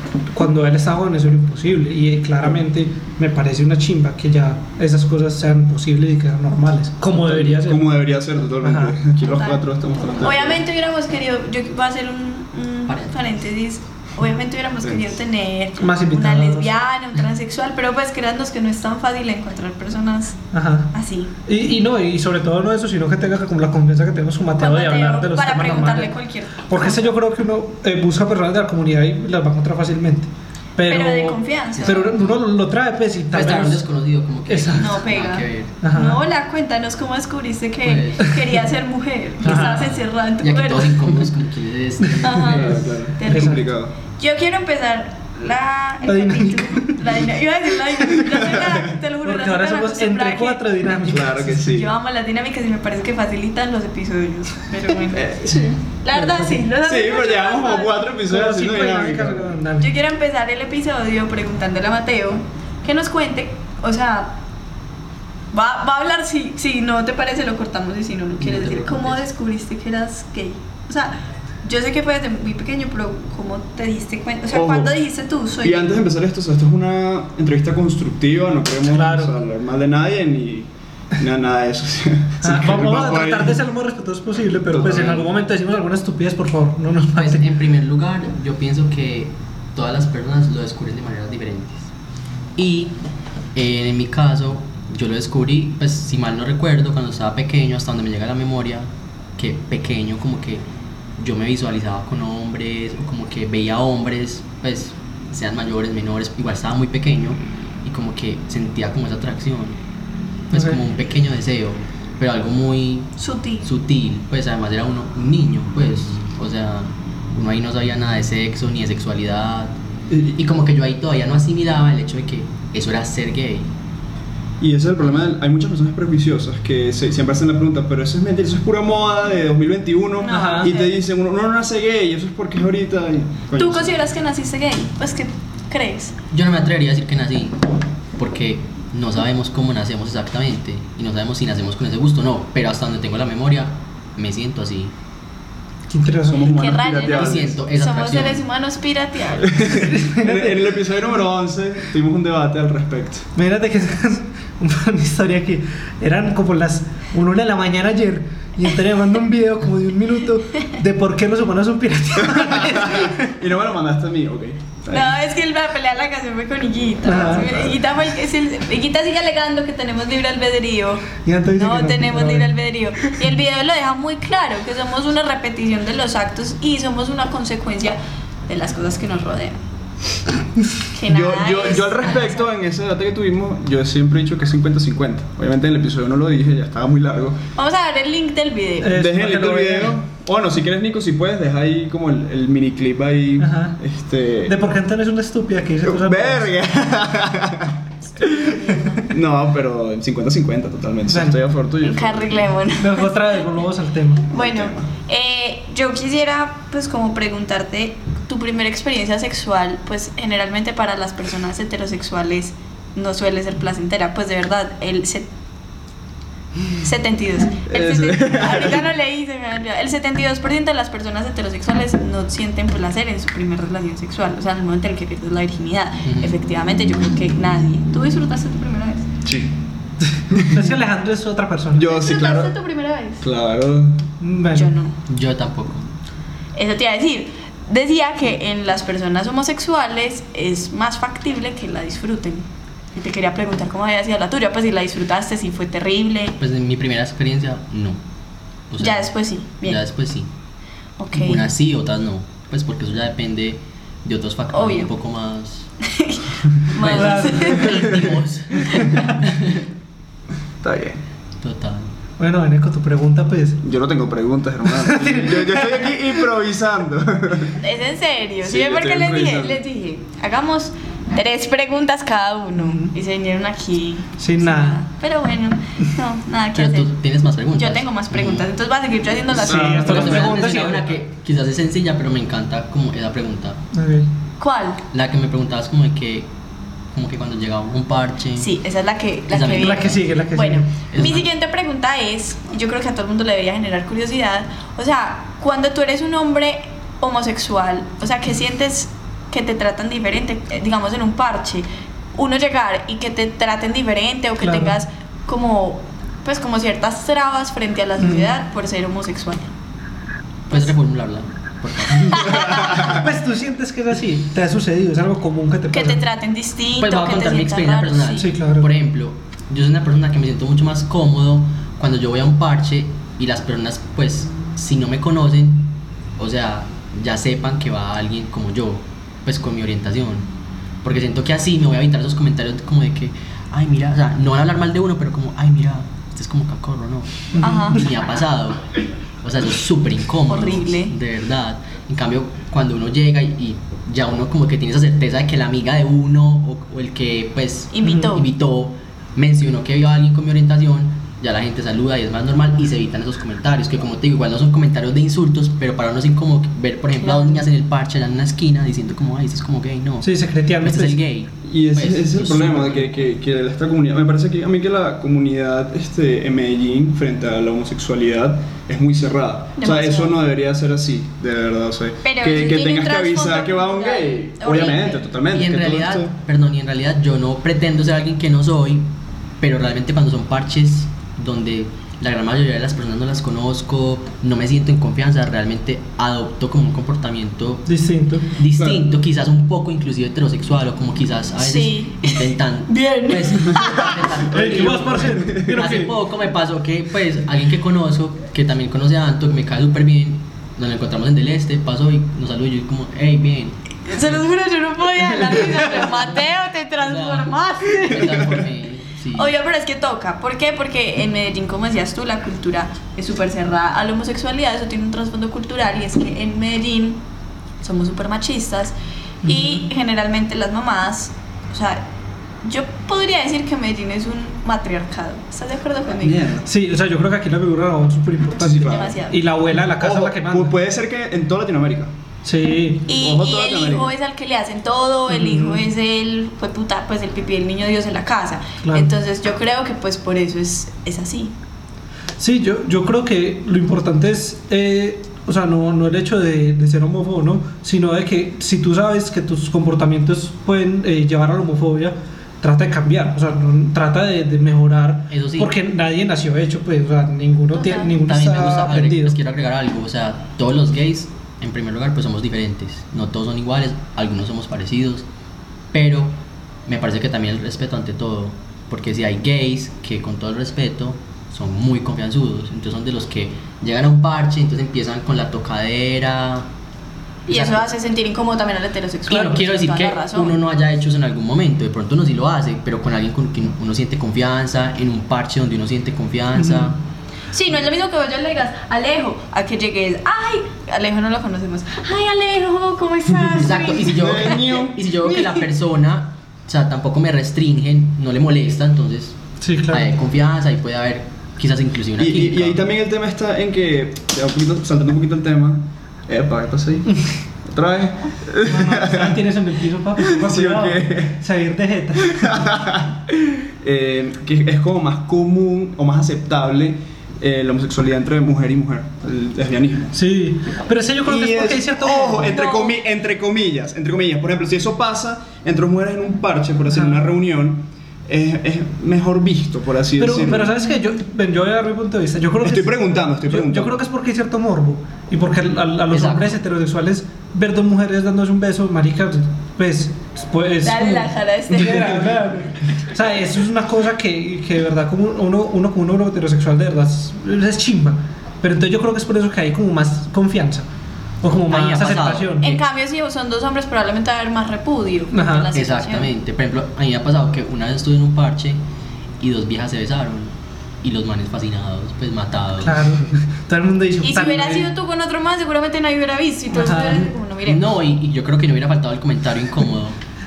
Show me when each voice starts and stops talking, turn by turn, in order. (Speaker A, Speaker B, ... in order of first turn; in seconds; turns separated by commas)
Speaker A: 0.3-7.9, Speaker B: 7.1-10.6, Speaker A: 8.6-9.0, Speaker C: 9.2-20.4, Speaker D: 12.9-13.2, Speaker B: 14.8-15.1, Speaker A: 15.8-16.7, Speaker A: 20.5-20.9, Speaker C: 20.9-21.3, Speaker A: 21.4-26.1, Speaker C: 24.6-27.1, Speaker A: 26.7-33.8, Speaker C: 30.8-32.1, Speaker D: 31.8-32.4, Speaker D: 33.3-35.7, Speaker A: 34.5-35.0, Speaker C: 34.8-41.1, Speaker A: 35.8-36.2, Speaker D: 37.8-38.4, Speaker A: 39.4-39.8, Speaker D: 39.4-39.9, Speaker D: 40.4-42.8, Speaker C: 42.2-50.6, Speaker B: 42.5-43.9, Speaker A: 43.3-43.6, Speaker A: 46.0-47.1, Speaker B: 48.3-48.9, Speaker A: 49.2-51.8, Speaker B: 51.0-51.9, Speaker C: 51.5-55.2, Speaker B: 55.0-55.8, Speaker C: 56.0-58.0, Speaker A: 56.1-56.6, Speaker B: 56.8-59.5, Speaker A: 58.3-59.9, Speaker C: 59.8-64.4, Speaker C: 65.5-75.9, Speaker D: 68.4-69.2, Speaker B: 74.5-75.0, Speaker B: 75.6-83.6, Speaker A: 78.9-79.3, Speaker A: 82.4-87.5, Speaker B: 84.7-85.2, Speaker D: 87.1-91.9, Speaker D: 92.6-92.9, Speaker D: 93.5-100.6, Speaker D: 101.2-109.8, Speaker D: 110.5-113.1, Speaker A: 110.5-110.8, Speaker C: 113.2-113.7, Speaker D: 113.6-119.8, Speaker B: 120.1-120.3, Speaker D: 120.3-123.7, Speaker B: 124.6-133.9, Speaker C: 130.2-130.9, Speaker A: 130.3-130.7, Speaker C: 133.6-136.1, Speaker D: 136.3-137.6, Speaker D: 138.2-144.9, Speaker A: 145.9-146.7, Speaker B: 146.2-147.6, Speaker C: 146.4-149.8, Speaker D: 147.1-148.4, Speaker B: 149.4-153.3, Speaker A: 149.7-150.8, Speaker A: 153.3-163.3, Speaker B: 162.2-165.2, Speaker C: 164.9-179.6, Speaker A: 167.0-167.6, Speaker B: 167.3-167.8, Speaker A: 171.2-172.5, Speaker C: 180.9-182.5, Speaker B: 181.1-187.4, Speaker C: 187.6-189.0, Speaker A: 188.8-190.0, Speaker B: 188.9-194.5, Speaker A: 193.4-193.8, Speaker A: 194.4-196.5, Speaker B: 195.8-202.5, Speaker C: 198.3-199.0, Speaker A: 201.1-201.4, Speaker C: 201.8-203.1, Speaker A: 202.8-204.3, Speaker B: 204.3-204.9, Speaker C: 204.3-215.3, Speaker C: 216.8-229.1, Speaker B: 217.7-218.9, Speaker D: 226.0-226.3, Speaker B: 229.2-229.5, Speaker B: 230.3-230.7, Speaker A: 230.3-231.9, Speaker B: 231.7-232.5, Speaker C: 231.9-233.2, Speaker B: 233.2-234.0, Speaker A: 234.2-234.7, Speaker C: 234.5-234.9, Speaker D: 235.1-235.8, Speaker C: 236.5-246.4, Speaker D: 246.4-248.0, Speaker D: 248.7-250.3, Speaker C: 248.8-249.8, Speaker C: 251.0-251.4, Speaker D: 251.1-255.7, Speaker C: 254.5-254.9, Speaker C: 255.8-257.8, Speaker D: 256.8-259.6, Speaker A: 256.9-258.1, Speaker B: 257.6-258.1, Speaker A: 258.6-259.1, Speaker B: 260.6-261.0, Speaker D: 261.4-261.9, Speaker A: 262.2-263.6, Speaker B: 263.6-267.6, Speaker A: 264.6-266.2, Speaker C: 267.6-276.9, Speaker B: 268.4-269.6, Speaker A: 272.6-272.9, Speaker A: 274.2-274.8, Speaker D: 276.5-278.5, Speaker C: 277.5-280.1, Speaker B: 279.3-280.6, Speaker A: 279.3-280.9, Speaker D: 279.8-283.6, Speaker A: 283.7-284.1, Speaker C: 284.4-284.8, Speaker D: 284.9-286.3, Speaker D: 286.9-288.5, Speaker C: 288.4-309.5, Speaker D: 289.3-290.1, Speaker A: 289.6-290.7, Speaker D: 290.9-291.3, Speaker A: 304.4-304.8, Speaker A: 308.0-308.3, Speaker D: 310.5-312.8, Speaker C: 312.0-312.6, Speaker B: 312.3-313.0, Speaker A: 312.7-316.0, Speaker C: 315.7-318.3, Speaker D: 316.8-330.3, Speaker A: 318.2-318.7, Speaker D: 330.8-338.6, Speaker A: 337.3-337.7, Speaker C: 337.4-337.8, Speaker D: 339.2-363.0, Speaker C: 340.3-340.9, Speaker C: 347.7-348.2, Speaker C: 357.0-357.4, Speaker A: 360.0-361.0, Speaker B: 361.4-376.1, Speaker C: 369.6-370.1, Speaker C: 372.0-375.0, Speaker D: 375.3-378.9, Speaker D: 379.4-387.7, Speaker A: 387.6-388.3, Speaker D: 388.3-404.2, Speaker B: 388.6-388.9, Speaker C: 391.4-394.0, Speaker B: 394.3-395.4, Speaker A: 394.3-395.9, Speaker C: 403.9-408.3, Speaker D: 405.2-409.3, Speaker B: 407.9-408.4, Speaker C: 409.1-417.0, Speaker C: 417.6-421.8, Speaker A: 419.2-419.6, Speaker C: 422.4-426.2, Speaker B: 426.0-426.5, Speaker A: 426.4-430.6, Speaker B: 428.4-429.0, Speaker C: 428.6-429.2, Speaker B: 429.7-431.9, Speaker A: 432.2-432.9, Speaker C: 432.9-441.3, Speaker B: 432.9-433.9, Speaker A: 435.1-435.6, Speaker A: 438.6-438.9, Speaker A: 442.2-459.2, Speaker D: 455.1-455.5, Speaker C: 457.5-457.9, Speaker D: 458.0-465.1, Speaker D: 465.7-476.5, Speaker C: 477.3-480.4, Speaker D: 477.3-477.7, Speaker D: 479.1-486.8, Speaker A: 486.3-486.7, Speaker C: 487.3-494.4, Speaker D: 493.4-499.1, Speaker B: 493.9-495.1, Speaker A: 499.4-499.9, Speaker D: 499.7-502.6, Speaker B: 502.0-506.9, Speaker B: 507.5-509.2, Speaker A: 508.4-512.5, Speaker B: 510.0-511.2, Speaker B: 512.0-520.0, Speaker A: 519.9-522.5, Speaker B: 521.0-530.5, Speaker C: 522.2-522.8, Speaker A: 526.7-527.0, Speaker A: 530.0-550.7, Speaker B: 532.4-533.7, Speaker D: 535.9-536.4, Speaker C: 540.6-542.0, Speaker A: 551.2-552.6, Speaker D: 551.5-552.6, Speaker C: 552.4-556.1, Speaker A: 555.1-555.5, Speaker D: 555.5-558.6, Speaker D: 559.2-562.9, Speaker A: 562.6-564.7, Speaker C: 564.0-567.6, Speaker A: 566.5-567.1, Speaker D: 567.5-570.0